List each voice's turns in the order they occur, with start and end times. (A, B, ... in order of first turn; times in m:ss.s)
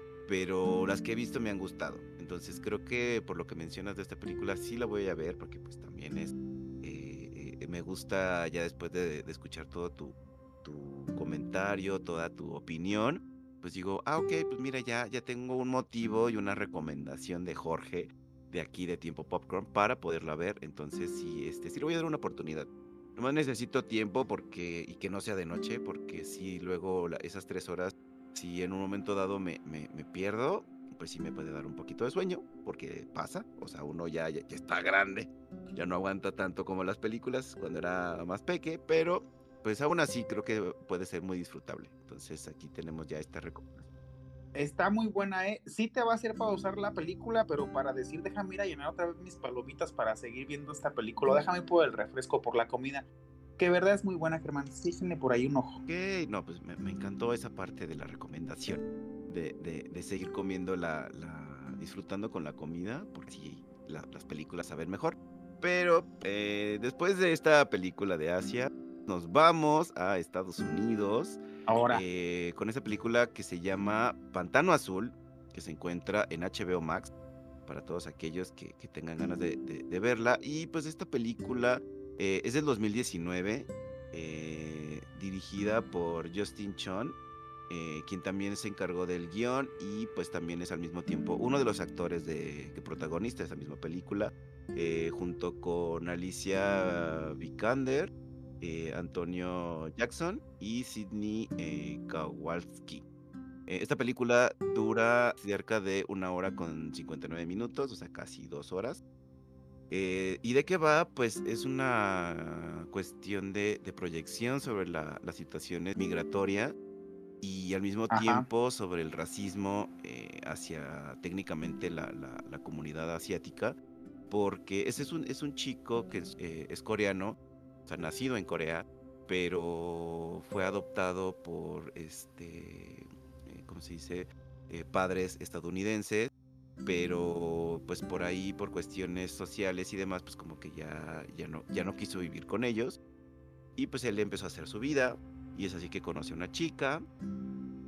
0:00.3-0:43.9 A
0:44.6-0:55.8 B
0:55.9-1:17.1 A
1:11.7-1:12.0 B
1:17.7-1:27.2 A
1:27.7-1:43.0 A
1:43.7-1:49.0 A
1:49.9-1:56.8 A
1:57.4-2:03.8 A
1:58.1-1:58.5 B
2:04.3-2:16.3 A
2:16.8-2:23.0 A
2:23.8-2:27.0 A